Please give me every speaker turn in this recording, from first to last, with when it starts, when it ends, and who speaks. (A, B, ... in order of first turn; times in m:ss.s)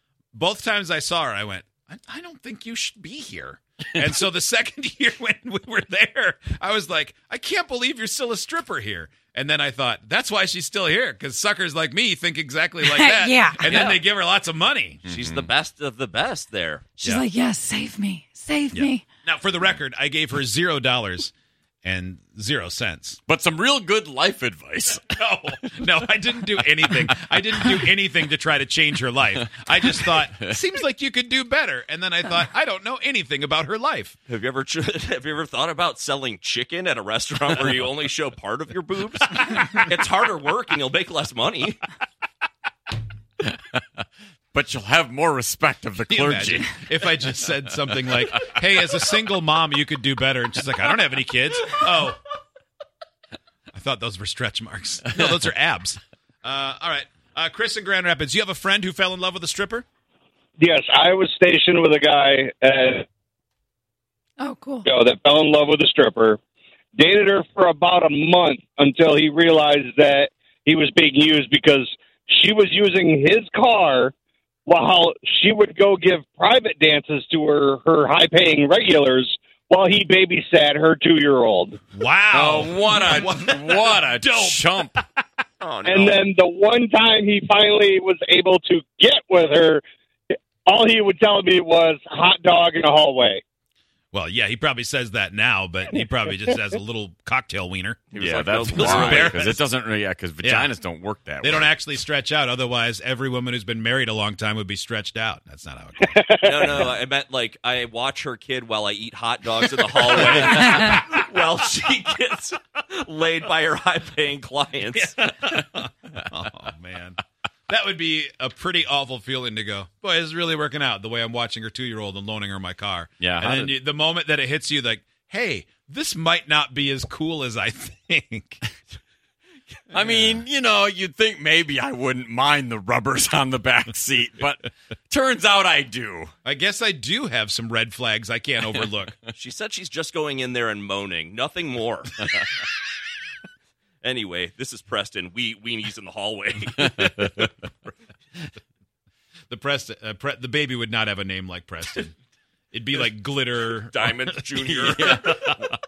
0:00.3-0:15.0 A
0:12.8-0:14.0 B
0:13.6-0:14.0 C
0:15.1-0:15.5 D
0:15.1-0:16.9 C
0:17.0-0:19.0 B
0:18.7-0:21.3 A
0:21.8-0:23.2 A
0:23.3-0:25.0 D
0:25.2-0:34.2 A
0:29.5-0:30.6 D
0:34.3-0:41.8 C
0:43.5-0:46.7 D
0:46.1-0:52.2 A
0:48.1-0:48.6 D
0:53.7-0:59.8 A
1:00.6-1:03.1 E
1:04.4-1:04.9 B
1:04.9-1:06.4 E
1:07.0-1:14.1 E
1:14.7-1:21.8 E
1:21.9-1:24.9 A
1:22.3-1:24.9 D
1:25.6-1:26.2 C
1:25.8-1:29.8 E
1:30.7-1:33.4 E
1:34.1-1:38.1 A
1:38.1-1:39.5 C
1:38.2-1:41.7 D
1:38.9-1:39.6 A
1:40.4-1:40.7 A
1:41.4-1:46.2 A
1:46.1-1:46.8 E
1:46.4-1:55.2 C
1:50.4-1:50.8 A
1:55.0-2:08.6 A
2:03.2-2:03.6 D
2:09.9-2:16.3 D
2:10.0-2:10.4 A
2:16.4-2:19.2 A
2:19.4-2:22.3 C
2:24.0-2:27.9 C
2:29.5-2:32.1 A
2:32.7-2:35.6 A
2:33.8-2:35.4 C
2:34.9-2:35.3 D